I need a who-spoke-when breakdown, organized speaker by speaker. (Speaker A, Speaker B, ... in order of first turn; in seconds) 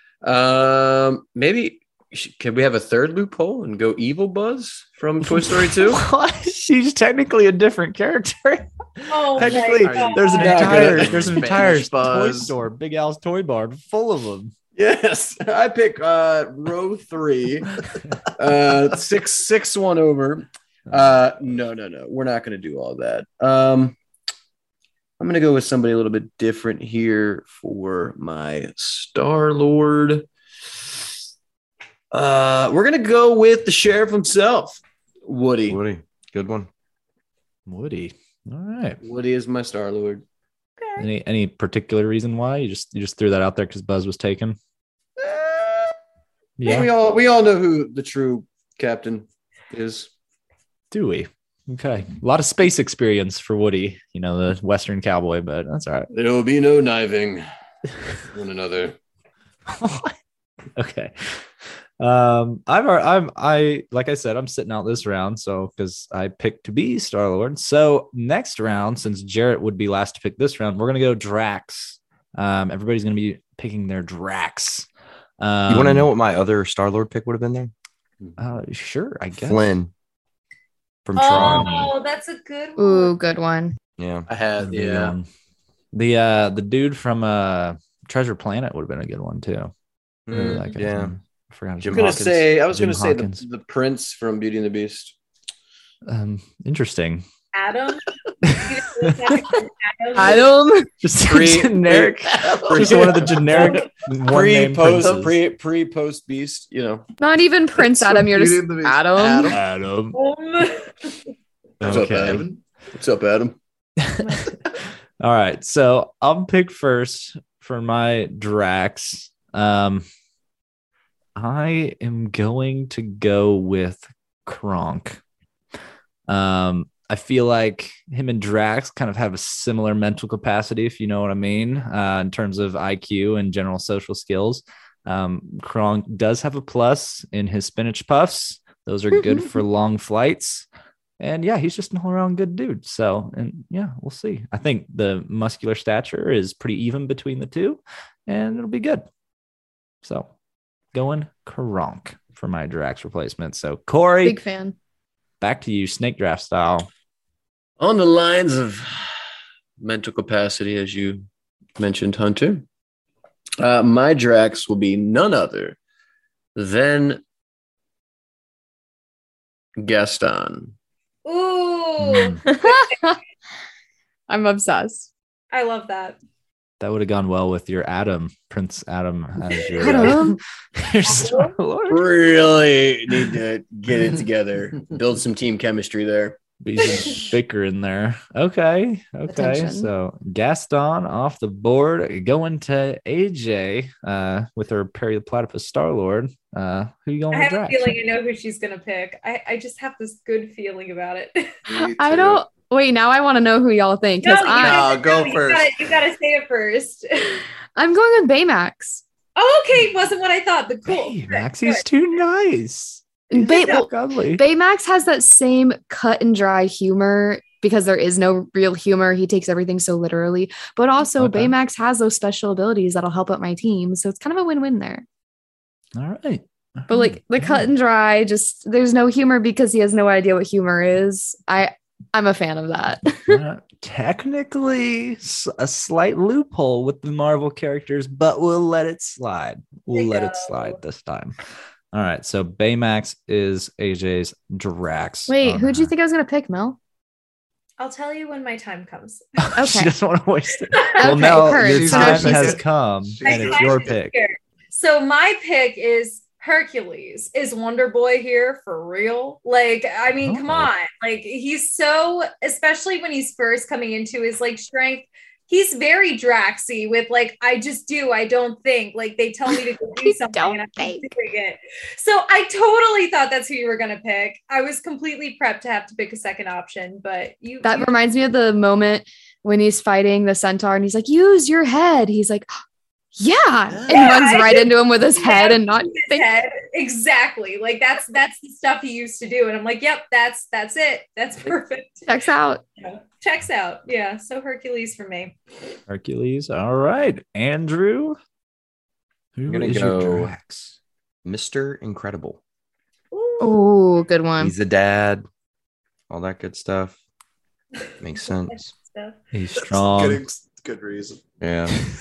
Speaker A: 0.2-6.0, 10.3-11.8, 14.8-17.8, 18.4-23.9, 25.2-30.3, 32.1-35.8, 39.0-40.2, 45.2-45.9, 46.6-50.1, 56.1-57.4, 58.2-59.0, 91.9-95.1, 101.2-107.0, 111.8-113.6, 157.8-161.2, 161.8-162.6, 163.6-165.8, 166.5-167.2, 169.8-170.7, 181.9-186.4
Speaker B: 5.2-14.5, 37.7-39.0, 41.0-44.6, 46.6-46.9, 50.9-56.1, 59.7-60.2, 60.8-61.4, 62.0-74.9, 75.4-76.1, 78.4-79.7, 81.3-81.9, 84.6-85.3, 85.9-89.7, 90.3-93.4, 96.0-97.2, 98.4-99.4, 101.0-105.4, 109.5-110.2, 111.8-112.4, 114.0-114.5, 115.2-120.0, 121.3-125.2, 126.3-140.7, 141.2-149.1, 150.0-150.3, 150.9-154.4, 155.4-156.9, 172.0-172.4, 176.8-182.1, 186.6-198.0, 210.9-214.4, 221.2-221.5, 225.9-227.6, 233.3-241.3, 241.9-245.9, 249.4-254.2, 260.2-260.7, 295.9-298.2, 299.4-300.8, 309.3-310.2
Speaker C: 9.1-10.8, 40.8-41.0, 81.2-83.1, 97.5-100.5, 110.1-111.2, 171.2-172.9, 175.5-176.2, 181.1-181.5, 197.3-201.6, 204.2-207.4, 209.3-211.8, 239.9-240.8, 247.8-249.5, 250.7-251.0, 253.2-277.9, 283.9-292.1, 292.8-295.4, 303.1-303.6, 307.8-309.2
Speaker D: 9.5-12.5, 84.3-85.1, 107.8-109.6, 111.8-112.6, 201.7-202.4, 204.6-205.9, 251.3-253.9, 283.7-284.1, 309.6-311.3
Speaker E: 35.7-36.7, 75.7-77.7, 79.4-79.9, 81.0-81.9, 84.0-84.3, 90.3-91.1, 91.8-92.3, 299.5-300.3, 301.2-302.4, 304.4-305.2, 306.1-307.0, 308.0-308.7, 311.4-311.8
Speaker F: 82.8-83.8, 100.1-100.9, 107.2-109.6, 154.2-154.8, 172.4-173.2, 174.3-175.1, 179.8-180.4, 189.3-189.9, 201.8-204.8, 207.8-209.0, 213.3-225.0, 226.9-233.4, 245.3-246.8, 249.6-249.9, 251.0-252.6, 270.0-271.1, 277.6-282.5, 283.2-286.3, 292.1-292.6, 303.4-304.5